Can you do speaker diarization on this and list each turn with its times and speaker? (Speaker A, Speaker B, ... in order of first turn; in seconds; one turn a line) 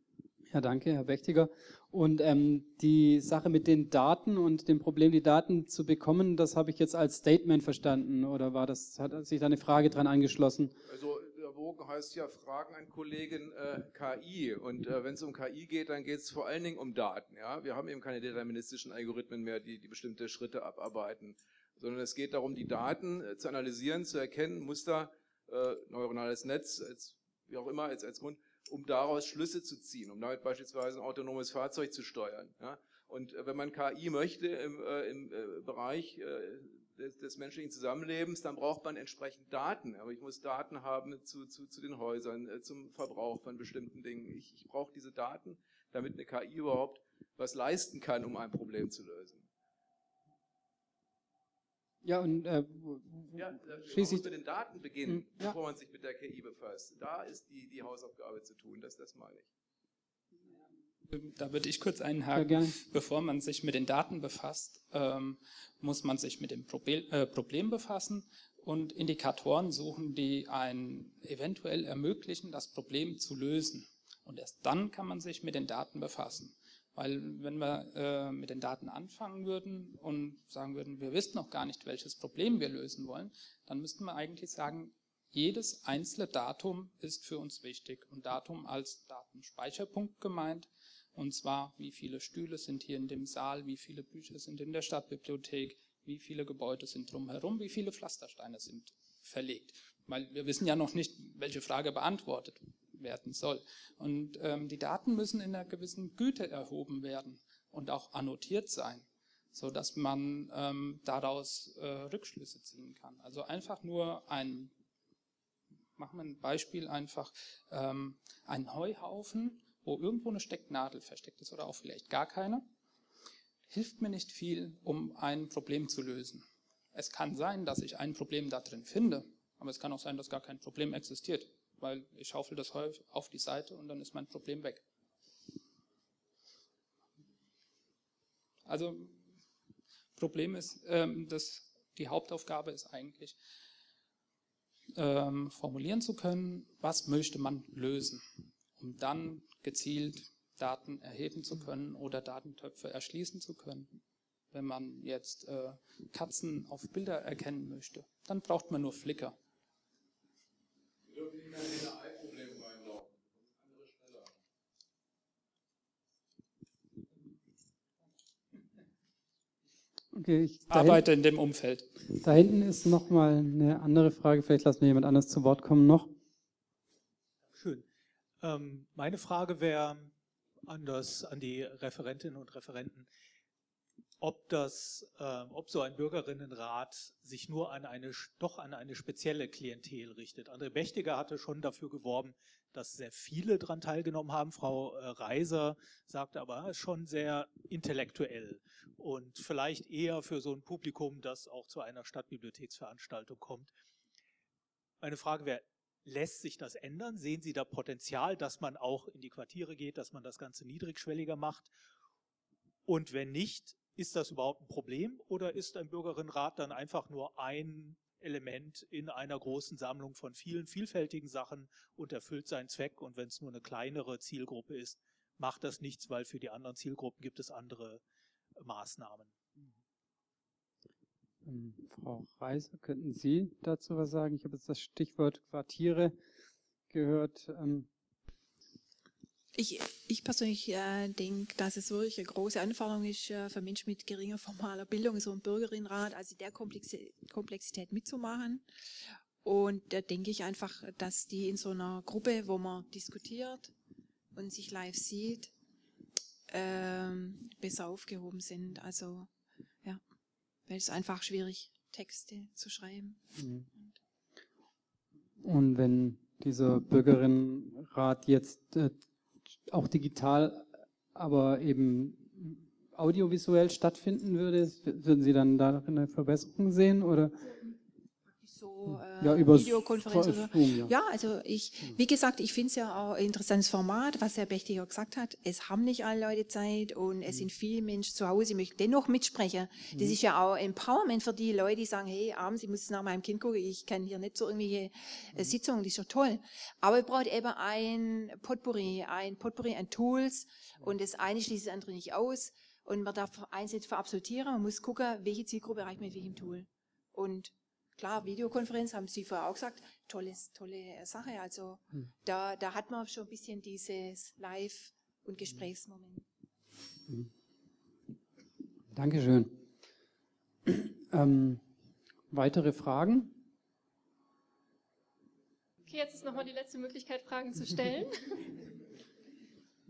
Speaker A: 0.5-10.7
Speaker B: 10.8-49.5
Speaker A: 52.0-54.3
Speaker B: 53.3-59.5
Speaker A: 55.0-55.6
Speaker C: 61.1-114.7
Speaker A: 62.3-62.7
Speaker C: 116.0-122.7
Speaker C: 123.7-134.8
Speaker C: 138.7-139.2
Speaker C: 140.2-143.4
Speaker C: 144.9-148.2
Speaker C: 148.8-154.0
Speaker C: 154.5-159.4
Speaker B: 161.1-164.4
Speaker A: 170.1-171.0
Speaker C: 170.7-171.9
Speaker A: 172.2-176.1
Speaker D: 177.5-177.8
Speaker D: 178.4-180.1
Speaker D: 180.7-183.1
Speaker D: 184.2-203.7
Speaker D: 205.0-211.7
Speaker D: 212.8-228.0
Speaker D: 228.6-229.3
Speaker A: 231.4-236.2
Speaker A: 236.9-237.9
Speaker E: 239.5-248.7
Speaker E: 249.4-253.7
Speaker E: 254.3-255.5
Speaker E: 256.5-259.3
Speaker E: 260.7-263.2
Speaker A: 263.4-263.7
Speaker A: 265.4-269.0
Speaker A: 269.7-277.3
Speaker E: 278.3-316.2
Speaker A: 278.9-280.9
Speaker A: 289.9-290.2
Speaker A: 318.9-319.6
Speaker A: 320.7-321.6
Speaker A: 322.3-323.4
Speaker F: 325.9-328.5